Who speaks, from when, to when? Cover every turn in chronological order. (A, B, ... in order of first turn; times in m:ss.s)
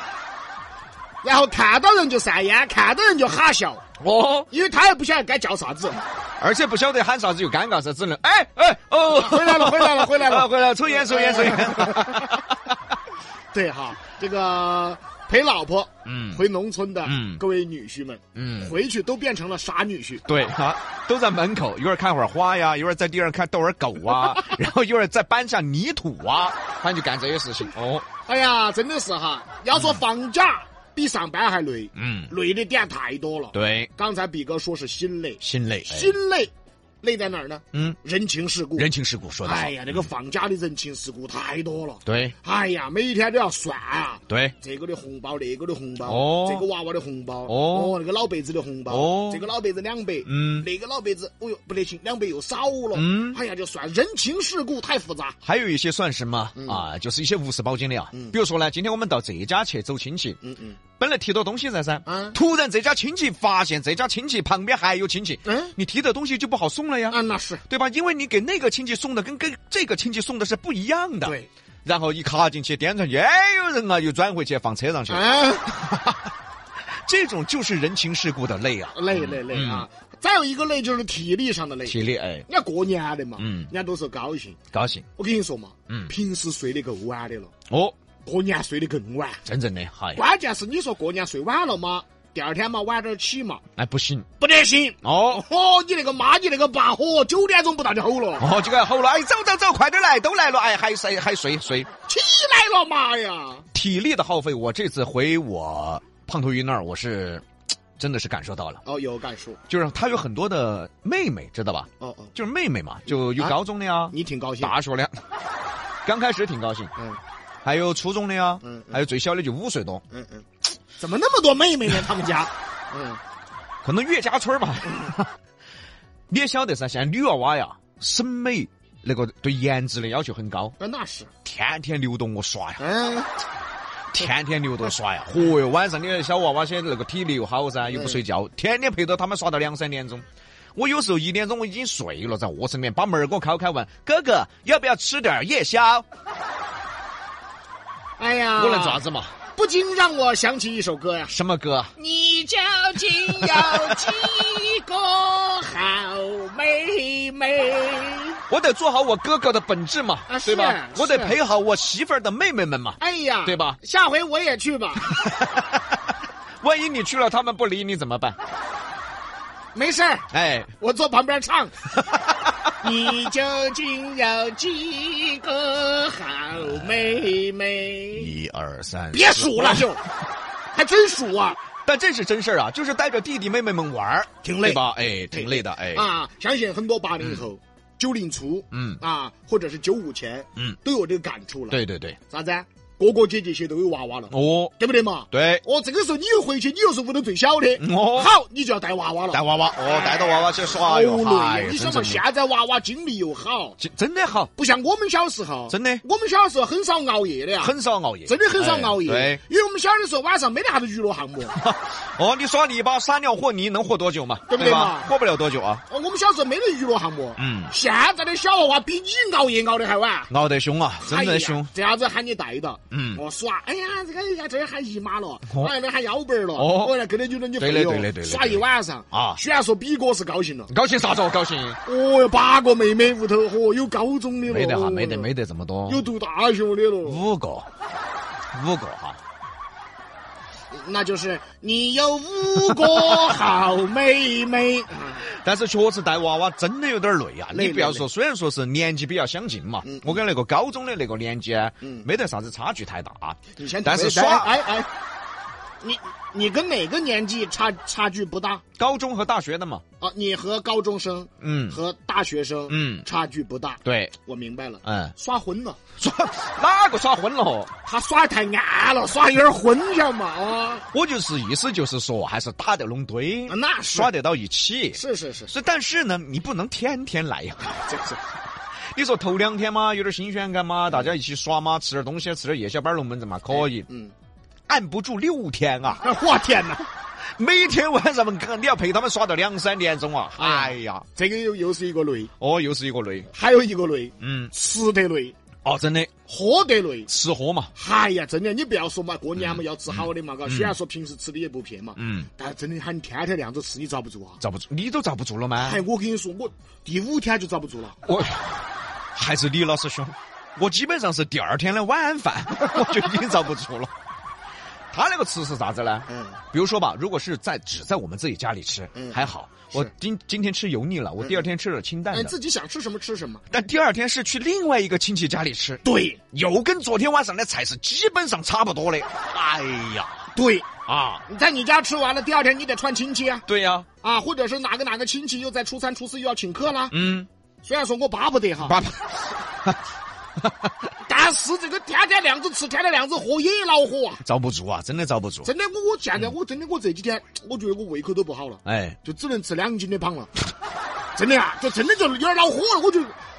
0:01.2-0:03.8 A
0:04.0-0:04.5 B
0:04.5-0:06.0 A
0:06.4-0:12.7 B
0:09.1-0:12.3 A
0:13.5-0:20.2 A
0:16.0-0:16.4 B
0:17.0-0:17.4 B
0:18.3-0:18.7 B
0:20.2-0:28.0 B
0:28.2-0:38.9 A
0:32.0-0:32.3 B
0:33.5-0:33.9 B
0:35.4-0:36.2 B
0:38.8-0:39.9 B
0:39.4-0:55.4 A
0:42.0-0:42.3 B
0:44.3-0:44.5 B
0:46.0-0:46.6 B
0:47.5-0:48.0 B
0:48.9-0:49.4 B
0:50.2-0:50.7 B
0:52.9-0:53.4 B
0:55.4-1:00.4 B
1:00.4-1:00.8 A
1:01.0-1:15.3 B
1:02.0-1:02.4 A
1:05.4-1:05.7 A
1:07.1-1:07.6 A
1:15.1-1:16.0 A
1:17.0-1:19.8 B
1:18.9-1:24.6 A
1:21.8-1:22.5 B
1:23.4-1:23.7 B
1:24.7-1:25.1 B
1:25.2-1:27.5 A
1:27.7-1:28.0 B
1:28.2-1:29.4 A
1:29.4-1:30.2 B
1:30.1-1:33.6 A
1:33.8-1:34.3 B
1:34.4-1:38.5 A
1:35.0-1:35.4 B
1:38.4-1:41.9 B
1:42.0-1:43.6 A
1:43.7-1:47.4 B
1:48.0-1:48.8 B
1:48.8-1:49.6 A
1:49.7-1:55.2 B
1:52.0-1:52.3 A
1:54.1-1:54.8 A
1:56.0-1:56.9 B
1:57.6-2:00.0 B
1:58.6-1:59.0 A
2:00.1-2:00.4 A
2:01.0-2:03.2 A
2:03.8-2:05.3 B
2:06.3-2:10.7 B
2:10.8-2:11.3 A
2:11.4-2:12.8 B
2:12.8-2:13.3 A
2:14.1-2:20.2 B
2:17.9-2:18.2 A
2:20.7-2:26.0 B
2:28.2-2:29.0 A
2:28.6-2:29.3 B
2:29.6-2:31.3 A
2:31.3-2:31.9 B
2:32.0-2:38.4 A
2:33.4-2:34.0 B
2:38.5-2:43.8 B
2:40.3-2:41.4 A
2:43.0-2:45.2 A
2:45.0-2:46.0 B
2:46.6-2:48.4 B
2:49.7-2:51.9 A
2:50.3-2:50.7 B
2:52.1-2:52.7 B
2:52.8-2:58.3 A
2:56.6-2:57.0 B
2:58.1-3:00.0 B
2:59.1-3:00.0 A
3:00.7-3:01.6 A
3:01.8-3:06.1 B
3:04.4-3:04.8 A
3:05.3-3:23.8 A
3:07.2-3:07.4 B
3:08.7-3:09.0 B
3:11.7-3:12.2 B
3:14.3-3:14.7 B
3:15.3-3:15.6 B
3:17.8-3:18.3 B
3:19.3-3:22.2 B
3:23.8-3:24.5 B
3:24.6-3:27.7 A
3:25.7-3:26.0 B
3:27.6-3:29.4 B
3:28.2-3:31.6 A
3:31.5-3:35.8 B
3:34.5-3:35.1 A
3:35.9-3:40.3 A
3:37.4-3:37.7 B
3:40.3-3:41.7 B
3:41.0-3:50.7 A
3:42.9-3:43.2 B
3:46.6-3:46.9 B
3:47.6-3:49.4 B
3:50.7-3:51.8 B
3:51.8-3:55.3 A
3:54.4-3:56.0 B
3:55.8-3:57.2 A
3:57.0-3:57.7 B
3:58.5-3:59.2 B
4:00.7-4:05.2 A
4:02.7-4:03.4 B
4:05.2-4:14.5 B
4:07.5-4:08.0 A
4:09.8-4:10.2 A
4:13.6-4:14.9 A
4:15.8-4:18.6 A
4:18.8-4:19.8 B
4:20.0-4:25.8 A
4:21.4-4:21.8 B
4:22.7-4:23.0 B
4:23.8-4:24.1 B
4:24.8-4:25.1 B
4:26.0-4:27.7 B
4:27.8-4:30.9 A
4:30.9-4:37.8 B
4:33.5-4:34.1 A
4:34.9-4:35.5 A
4:37.8-4:38.2 A
4:38.9-4:43.9 B
4:43.5-4:44.1 A
4:44.7-4:46.0 B
4:46.0-4:46.9 A
4:47.3-4:51.0 B
4:50.4-4:52.3 A
4:52.4-4:53.3 B
4:53.3-4:55.4 A
4:54.2-4:54.5 B
4:55.6-4:56.1 B
4:56.3-4:57.1 A
4:57.1-4:57.7 B
4:57.7-5:04.4 A
4:59.4-5:00.7 B
5:02.0-5:02.3 B
5:04.4-5:05.8 B
5:05.6-5:08.0 A
5:08.0-5:13.9 B
5:14.9-5:22.3 B
5:16.1-5:16.4 A
5:18.9-5:19.2 A
5:22.1-5:23.4 A
5:23.5-5:30.3 B
5:25.8-5:26.2 A
5:30.3-5:30.7 A
5:30.9-5:31.2 B
5:31.3-5:33.4 A
5:33.5-5:33.9 B
5:34.0-5:36.9 A
5:36.9-5:37.3 B
5:37.6-5:38.8 A
5:38.6-5:39.8 B
5:40.4-5:40.7 B
5:41.0-5:44.2 A
5:44.2-5:45.5 B
5:45.4-5:50.3 A
5:48.6-5:49.0 B
5:51.2-5:53.2 A